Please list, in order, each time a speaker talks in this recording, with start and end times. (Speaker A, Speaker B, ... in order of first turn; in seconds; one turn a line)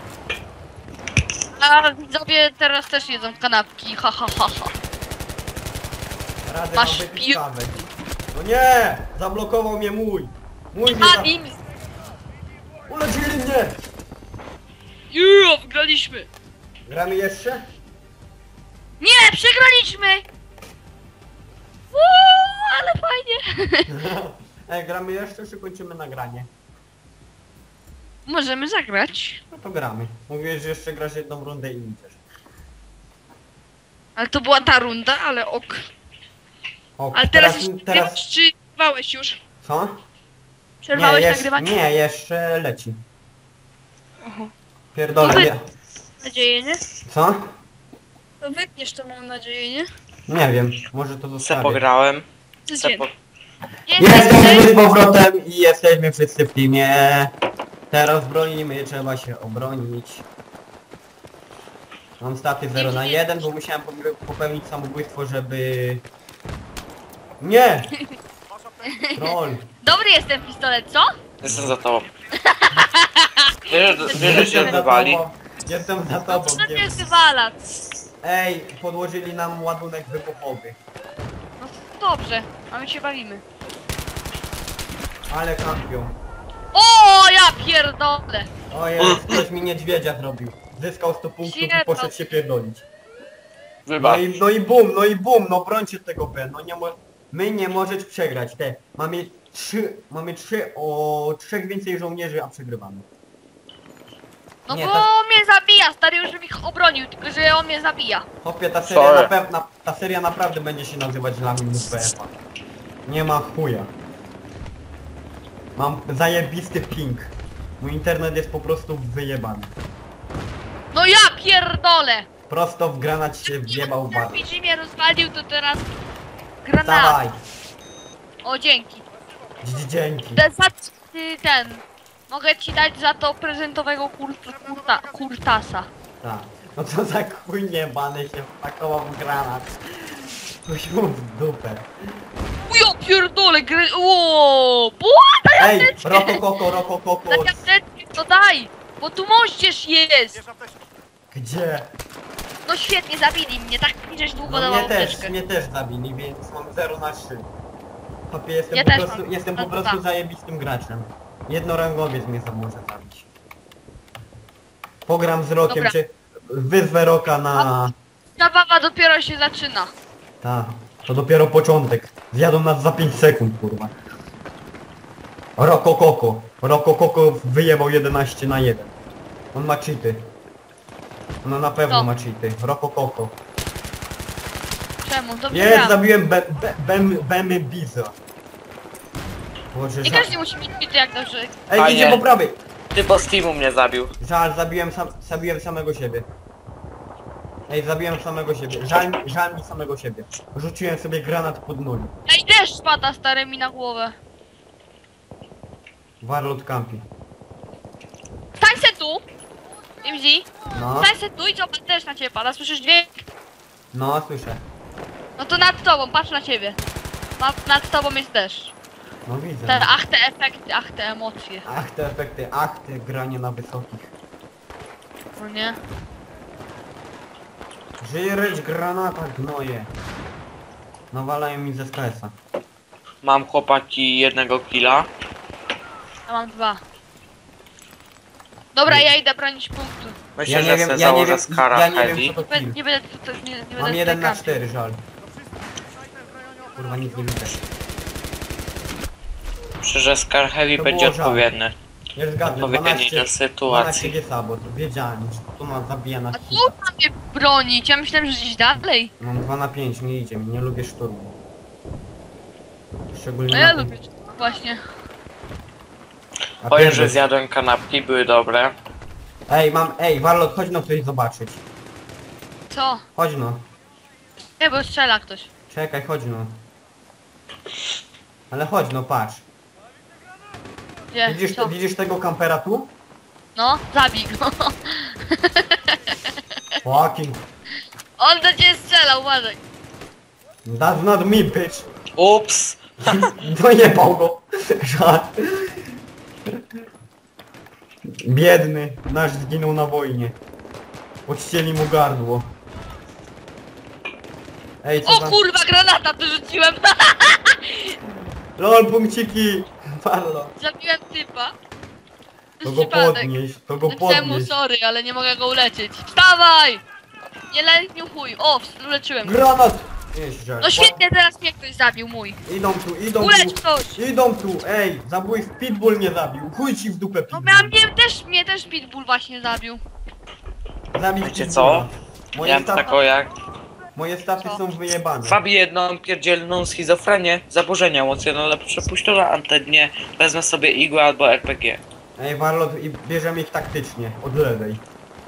Speaker A: 1.6-4.7
Speaker B: 6.4-11.3
Speaker A: 6.7-7.4
Speaker A: 10.9-11.6
Speaker B: 12.9-13.8
Speaker A: 15.1-16.3
Speaker B: 16.9-17.7
Speaker A: 19.0-20.2
Speaker A: 21.9-23.9
Speaker B: 23.9-26.5
Speaker A: 28.2-29.4
Speaker B: 29.5-32.2
Speaker A: 34.1-35.8
Speaker B: 37.0-38.2
Speaker A: 37.1-39.4
Speaker B: 39.6-40.0
Speaker A: 40.8-41.7
Speaker B: 40.9-43.0
Speaker A: 44.2-44.5
Speaker B: 44.9-45.6
Speaker A: 45.2-45.5
Speaker A: 46.2-46.8
Speaker B: 47.0-47.5
Speaker A: 48.4-49.9
Speaker B: 50.3-51.8
Speaker C: 51.4-52.2
Speaker A: 52.7-53.0
Speaker C: 52.8-53.1
Speaker A: 53.9-54.8
Speaker B: 54.0-57.3
Speaker B: 57.9-60.2
Speaker B: 62.2-66.0
Speaker A: 62.7-63.3
Speaker B: 67.4-68.0
Speaker A: 68.8-71.1
Speaker B: 69.1-69.7
Speaker B: 71.4-71.8
Speaker C: 71.4-72.1
Speaker A: 72.4-74.7
Speaker C: 73.7-75.2
Speaker B: 74.1-77.2
Speaker A: 76.3-77.6
Speaker B: 78.2-80.8
Speaker A: 81.6-83.4
Speaker B: 85.3-86.2
Speaker A: 86.7-88.5
Speaker B: 88.7-92.8
Speaker C: 89.0-89.4
Speaker A: 91.4-92.1
Speaker C: 93.9-94.3
Speaker B: 94.0-103.0
Speaker A: 104.7-108.2
Speaker B: 104.7-105.1
Speaker B: 108.4-112.3
Speaker C: 108.8-109.3
Speaker B: 113.0-113.9
Speaker B: 115.8-119.7
Speaker A: 120.9-122.3
Speaker B: 122.5-124.5
Speaker A: 123.5-125.9
Speaker A: 126.6-127.2
Speaker B: 126.8-127.4
Speaker A: 128.4-129.0
Speaker B: 129.6-130.4
Speaker A: 130.3-135.9
Speaker B: 136.2-141.9
Speaker A: 142.7-146.4
Speaker B: 145.6-147.7
Speaker A: 147.3-150.4
Speaker B: 151.3-151.9
Speaker A: 152.6-155.3
Speaker B: 154.4-157.5
Speaker B: 158.3-163.3
Speaker A: 158.7-160.0
Speaker B: 165.1-167.9
Speaker A: 165.7-165.9
Speaker A: 168.4-169.9
Speaker B: 170.4-173.9
Speaker B: 175.6-178.9
Speaker B: 179.5-180.3
Speaker B: 181.4-183.4
Speaker A: 185.0-186.0
Speaker B: 185.5-188.1
Speaker B: 189.7-190.3
Speaker A: 190.0-191.5
Speaker B: 191.7-192.6
Speaker C: 191.7-192.2
Speaker C: 192.9-194.1
Speaker B: 194.2-196.3
Speaker B: 197.7-202.1
Speaker A: 202.3-204.1
Speaker B: 206.2-207.1
Speaker A: 208.6-209.2
Speaker A: 210.0-213.2
Speaker B: 210.7-211.1
Speaker B: 213.9-214.7
Speaker A: 215.4-216.8
Speaker A: 217.4-218.7
Speaker B: 219.2-220.0
Speaker A: 219.7-221.7
Speaker B: 221.6-224.1
Speaker A: 225.3-225.8
Speaker B: 228.0-229.9
Speaker B: 231.1-232.3
Speaker C: 233.2-235.1
Speaker A: 236.3-236.8
Speaker A: 238.7-240.2
Speaker C: 240.4-242.3
Speaker B: 240.4-242.8
Speaker A: 242.5-244.6
Speaker B: 243.8-245.0
Speaker B: 246.8-247.6
Speaker C: 249.8-251.7
Speaker B: 250.8-251.5
Speaker B: 252.2-256.8
Speaker C: 252.4-254.1
Speaker A: 256.3-259.1
Speaker B: 259.2-261.4
Speaker B: 263.1-263.9
Speaker A: 263.5-264.8
Speaker B: 266.6-267.2
Speaker C: 266.7-268.7
Speaker B: 269.5-271.6
Speaker A: 272.7-273.0
Speaker B: 273.1-273.7
Speaker A: 274.6-275.5
Speaker B: 275.7-276.6
Speaker B: 278.5-279.4
Speaker A: 281.1-281.7
Speaker B: 281.2-282.9
Speaker A: 283.5-286.0
Speaker B: 286.8-287.4
Speaker A: 288.2-289.6
Speaker B: 290.6-291.9
Speaker C: 292.2-293.2
Speaker B: 293.0-295.8
Speaker B: 298.2-300.4
Speaker B: 301.2-302.5
Speaker B: 304.8-305.4
Speaker A: 305.0-307.9
Speaker B: 308.6-310.5
Speaker A: 310.6-311.5
Speaker A: 312.6-313.3
Speaker B: 312.6-314.5
Speaker A: 313.9-316.8
Speaker A: 317.5-319.4
Speaker B: 319.2-321.0
Speaker A: 320.6-322.4
Speaker B: 322.4-327.8
Speaker A: 323.2-324.0
Speaker A: 327.3-329.8
Speaker B: 330.9-332.9
Speaker C: 331.2-331.9
Speaker C: 332.4-333.3
Speaker B: 333.9-335.4
Speaker C: 335.2-341.8
Speaker B: 342.2-344.8